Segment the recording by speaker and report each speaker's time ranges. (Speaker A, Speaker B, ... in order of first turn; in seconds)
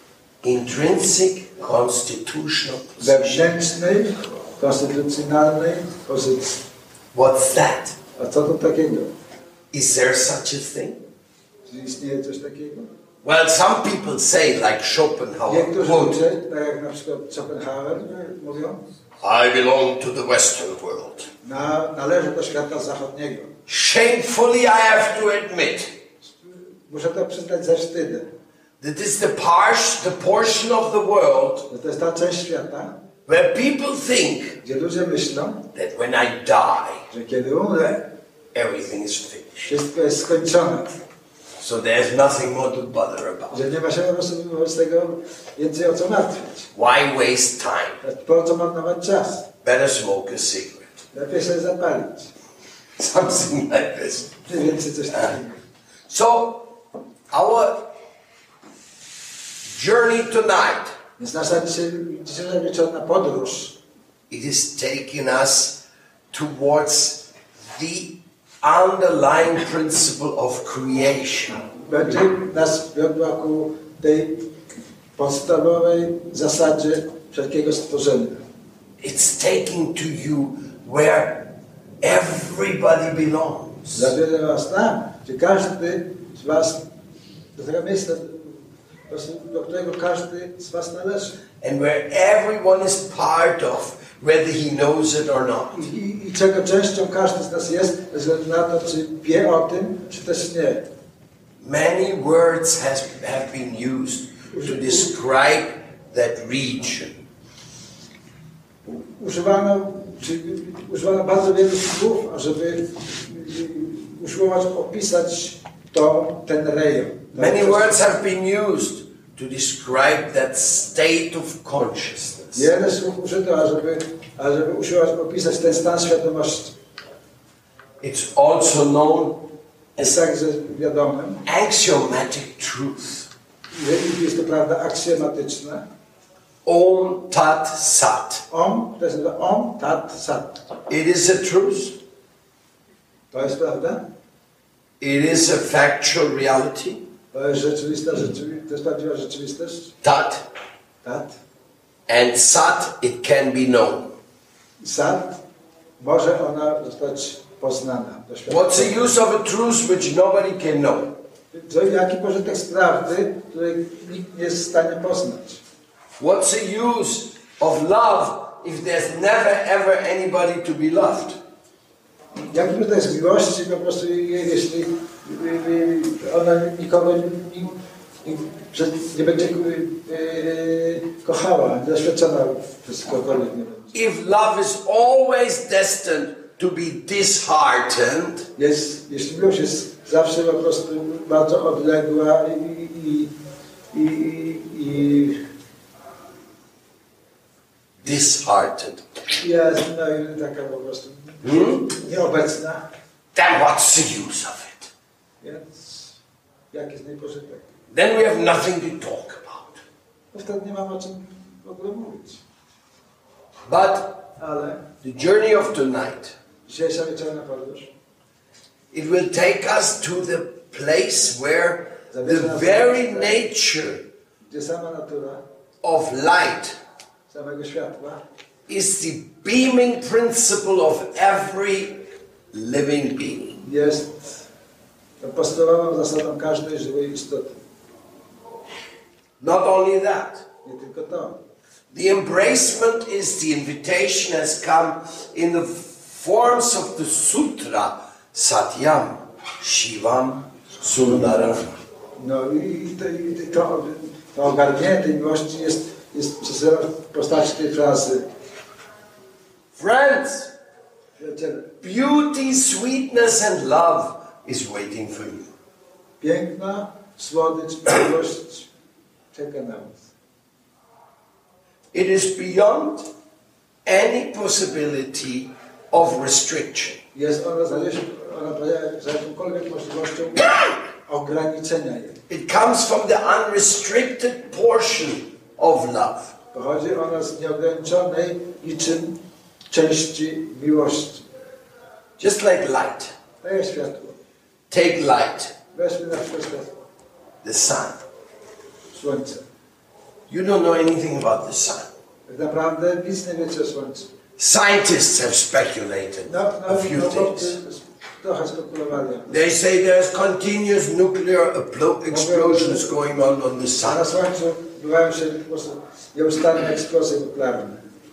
Speaker A: 0.4-3.5, 7.1-8.0, 9.7-11.0, 13.2-16.2, 19.2-21.3, 23.7-25.9, 28.8-31.7, 33.2-34.6, 35.7-37.0, 38.5-39.7, 41.6-43.6, 46.7-48.0, 49.6-50.8, 53.0-54.3, 56.1-56.7, 57.3-57.9, 59.7-61.0, 64.3-71.6, 79.0-84.1, 91.6-95.8, 101.6-107.2, 117.3-122.7, 128.0-129.4, 131.4-133.3, 136.6-138.4, 140.9-142.0, 145.0-147.0, 150.0-150.5, 152.1-154.1, 158.5-161.1, 166.2-171.4, 183.9-188.5, 198.0-199.0, 201.4-201.9, 203.3-204.9, 207.9-209.8, 213.7-214.3, 215.0-216.3, 218.9-224.0, 225.8-226.8, 228.7-232.0, 232.5-233.6, 239.4-240.4, 241.9-251.7, 259.7-260.5, 261.8-265.5, 271.9-273.1, 273.8-277.0, 282.3-286.3, 292.2-293.1, 294.7-295.6, 297.4-298.0, 300.3-301.9, 304.4-307.6, 309.3-314.0
Speaker B: 3.0-6.6, 8.2-9.1, 11.7-12.9, 15.5-18.8, 21.4-23.5, 26.4-28.3, 31.7-33.0, 34.6-35.7, 37.1-38.1, 39.6-40.9, 43.5-46.7, 48.0-49.5, 51.1-52.3, 54.4-55.6, 61.2-63.8, 71.7-74.4, 75.2-78.4, 83.9-86.8, 87.5-91.4, 95.7-100.9, 104.5-105.1, 108.8-118.0, 122.5-126.7, 130.0-131.4, 133.7-135.8, 138.5-140.6, 143.3-144.1, 147.3-149.9, 151.0-151.4, 154.8-155.4, 156.0-159.1, 161.5-165.6, 172.3-183.9, 188.6-193.3, 193.9-195.4, 199.4-202.9, 205.4-206.2, 206.7-207.6, 210.3-212.4, 214.4-214.8, 216.7-217.9, 222.1-223.4, 224.5-225.4, 227.3-228.2, 233.6-234.4, 235.2-237.6, 240.6-241.4, 251.1-251.5, 252.2-258.2, 261.2-261.8, 266.2-268.7, 269.3-270.1, 277.1-282.2, 286.5-289.2, 289.7-291.2, 293.4-294.2, 295.7-296.7, 298.9-299.4, 302.3-304.1, 306.3-309.3, 312.1-312.9, 313.8-317.8